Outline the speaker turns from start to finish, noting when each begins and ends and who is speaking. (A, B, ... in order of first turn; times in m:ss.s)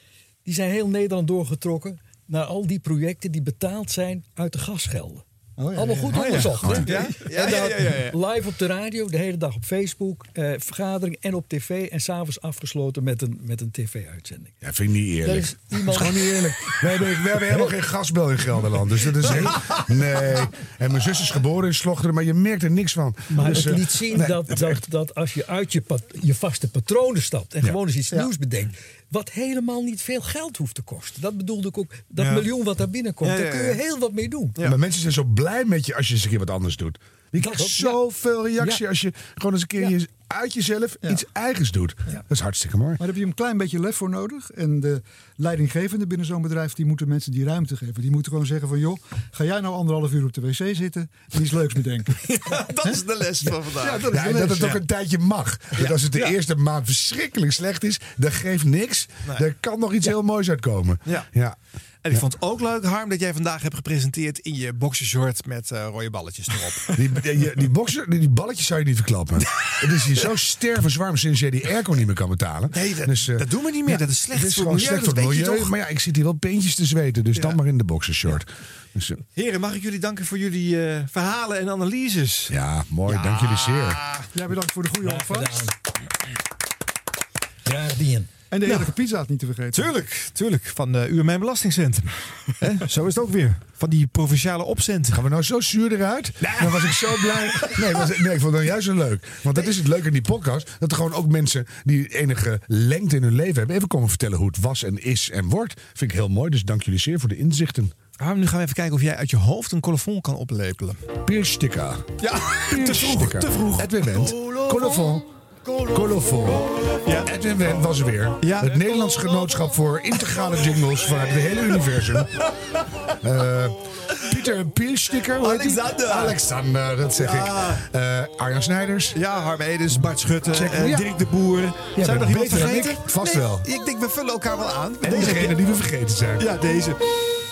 0:00.4-0:05.2 A
0:05.6-0:06.5 B
0:05.8-0:14.5 A
0:06.1-0:08.2 C
0:14.6-0:24.8 D
0:15.2-0:17.8 A
0:23.3-0:34.6 A
0:32.2-0:32.5 C
0:33.2-0:33.8 C
0:34.6-0:43.0 D
0:37.4-0:38.0 A
0:43.0-0:52.2 B
0:52.2-0:54.1 C
0:52.8-0:54.8 B
0:54.1-1:01.6 D
0:55.8-0:56.4 C
1:02.0-1:07.0 C
1:06.9-1:19.2 D
1:09.4-1:09.7 C
1:12.7-1:15.7 C
1:19.3-1:22.5 C
1:22.5-1:24.0 D
1:23.0-1:24.3 C
1:24.3-1:25.6 B
1:25.0-1:25.7 A
1:27.6-1:28.3 A
1:28.5-1:29.9 B
1:28.6-1:28.9 C
1:29.7-1:35.2 C
1:35.1-1:47.9 D
1:36.6-1:37.4 C
1:48.2-1:51.0 C
1:51.2-1:52.1 D
1:52.2-1:55.1 C
1:52.7-1:55.2 D
1:55.9-2:02.3 D
1:57.0-1:57.3 C
1:58.4-1:59.4 C
2:03.2-2:09.1 D
2:05.4-2:06.4 C
2:07.2-2:07.8 C
2:09.1-2:15.6 C
2:10.5-2:11.1 D
2:12.0-2:13.7 D
2:15.0-2:16.5 D
2:16.4-2:17.0 C